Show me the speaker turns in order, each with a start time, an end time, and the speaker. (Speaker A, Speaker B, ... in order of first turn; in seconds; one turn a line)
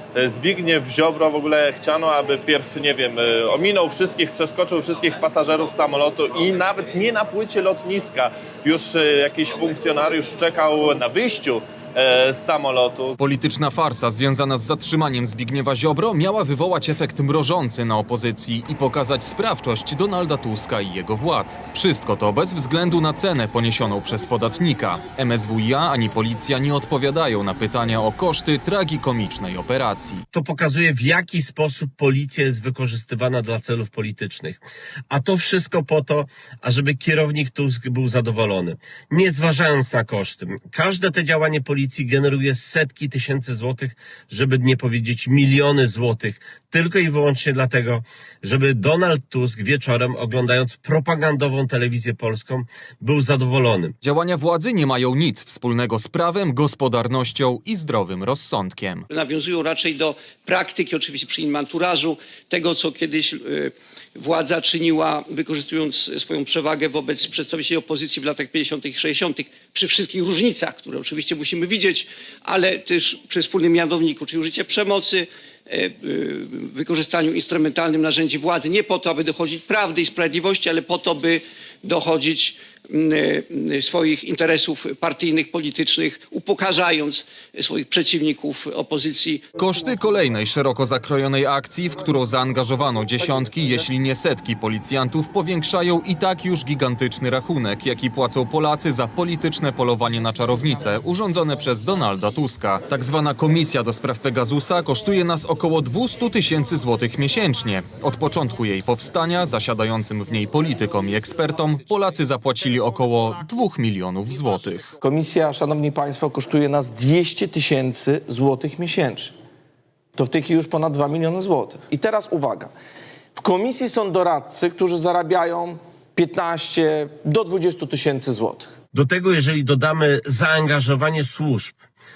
Speaker A: 0.2-13.1
Speaker B: 13.2-30.2
Speaker C: 30.3-53.9
Speaker B: 54.0-59.0
Speaker D: 59.1-89.5
Speaker B: 89.6-114.9
Speaker E: 115.0-119.3
Speaker E: 120.1-122.7
Speaker E: 123.3-128.7
Speaker C: 128.9-131.8